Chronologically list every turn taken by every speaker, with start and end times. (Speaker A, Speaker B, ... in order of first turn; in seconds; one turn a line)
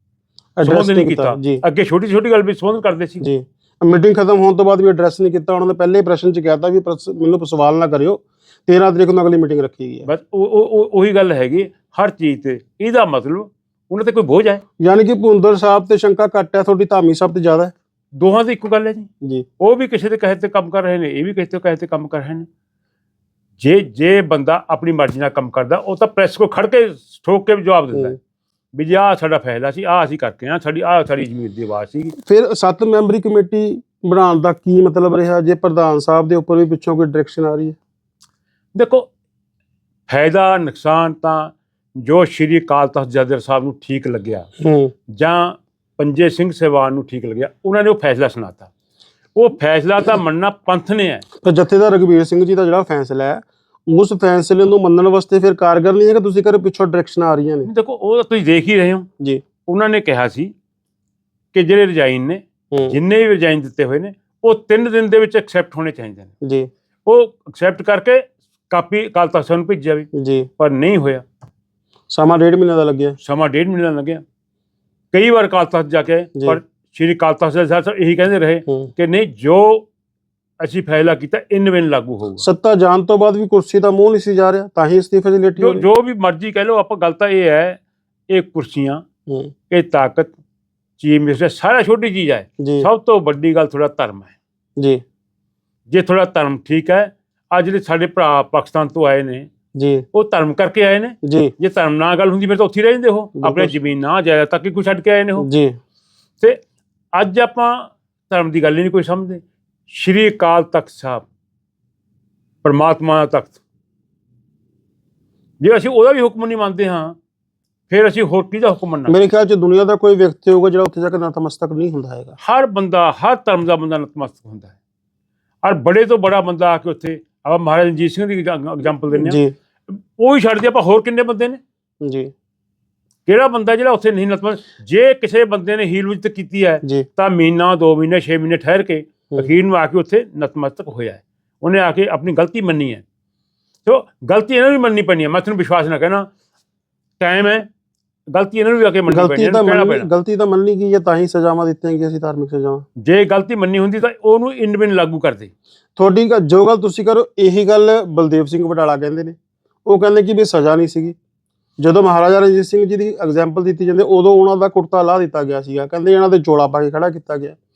Speaker A: 0.6-1.6
Speaker B: 0.6-3.2
Speaker A: 3.2-10.1
Speaker B: 10.0-14.6
Speaker A: 14.8-17.7
Speaker B: 18.1-19.1
Speaker B: 19.6-22.5
Speaker B: 23.6-28.1
Speaker B: 28.7-32.1
Speaker A: 32.2-37.8
Speaker B: 38.7-39.1
Speaker B: 40.1-44.5
Speaker A: 44.6-44.9
Speaker B: 45.1-48.7
Speaker B: 49.3-51.2
Speaker A: 51.4-57.7
Speaker B: 57.6-59.1
Speaker B: 59.6-60.5
Speaker B: 61.5-66.3
Speaker A: 62.7-63.0
Speaker A: 66.4-66.7
Speaker B: 67.0-70.1
Speaker A: 70.1-70.5
Speaker B: 70.6-71.2
Speaker A: 72.1-73.2
Speaker B: 73.2-74.2
Speaker B: 75.1-79.9
Speaker B: 80.6-82.5
Speaker A: 82.4-85.8
Speaker B: 85.6-89.0
Speaker A: 89.3-89.5
Speaker B: 89.7-90.3
Speaker B: 91.0-94.3
Speaker A: 92.6-92.9
Speaker B: 95.9-99.5
Speaker A: 99.8-100.0
Speaker B: 100.1-105.5
Speaker A: 101.2-101.5
Speaker A: 103.4-103.7
Speaker A: 105.4-105.8
Speaker B: 107.1-111.2
Speaker B: 112.6-113.6
Speaker B: 115.6-117.2
Speaker B: 117.9-119.2
Speaker A: 119.1-122.3
Speaker B: 122.4-124.7
Speaker B: 125.6-131.6
Speaker A: 129.1-129.5
Speaker A: 132.0-132.3
Speaker B: 133.2-143.0
Speaker B: 143.8-146.3
Speaker B: 147.2-147.7
Speaker B: 148.3-150.1
Speaker A: 149.1-152.8
Speaker B: 153.0-155.5
Speaker A: 156.0-161.2
Speaker A: 161.8-167.6